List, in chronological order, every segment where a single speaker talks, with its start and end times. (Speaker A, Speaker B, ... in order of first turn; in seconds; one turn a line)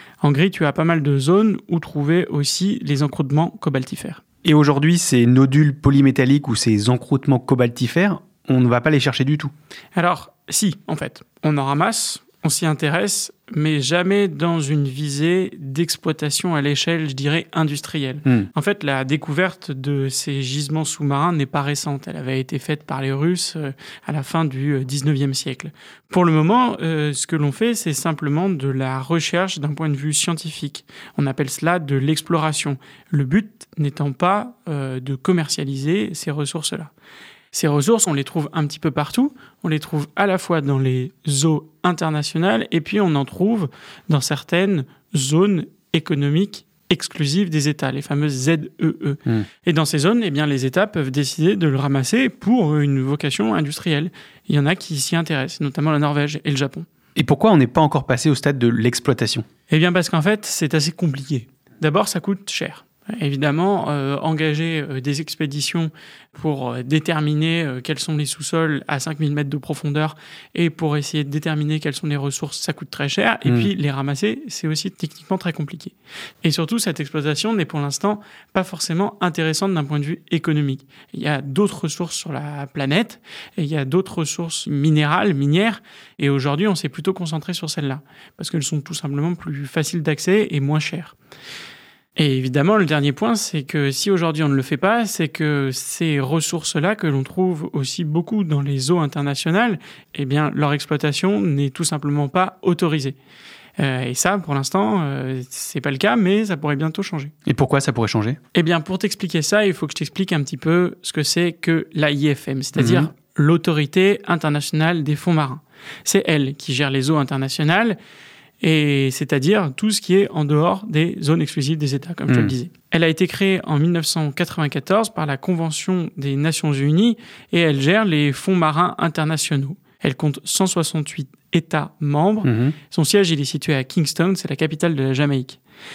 Speaker A: 0.2-4.2
Speaker B: 4.4-9.5
Speaker A: 9.9-36.9
Speaker A: 37.5-56.9
Speaker B: 57.1-59.4
Speaker A: 59.7-91.2
Speaker B: 73.4-73.7
Speaker A: 92.2-103.2
Speaker A: 103.8-107.3
Speaker B: 107.5-108.4
Speaker A: 108.5-118.0
Speaker B: 112.7-113.1
Speaker A: 118.6-135.6
Speaker B: 122.3-122.5
Speaker B: 132.4-132.8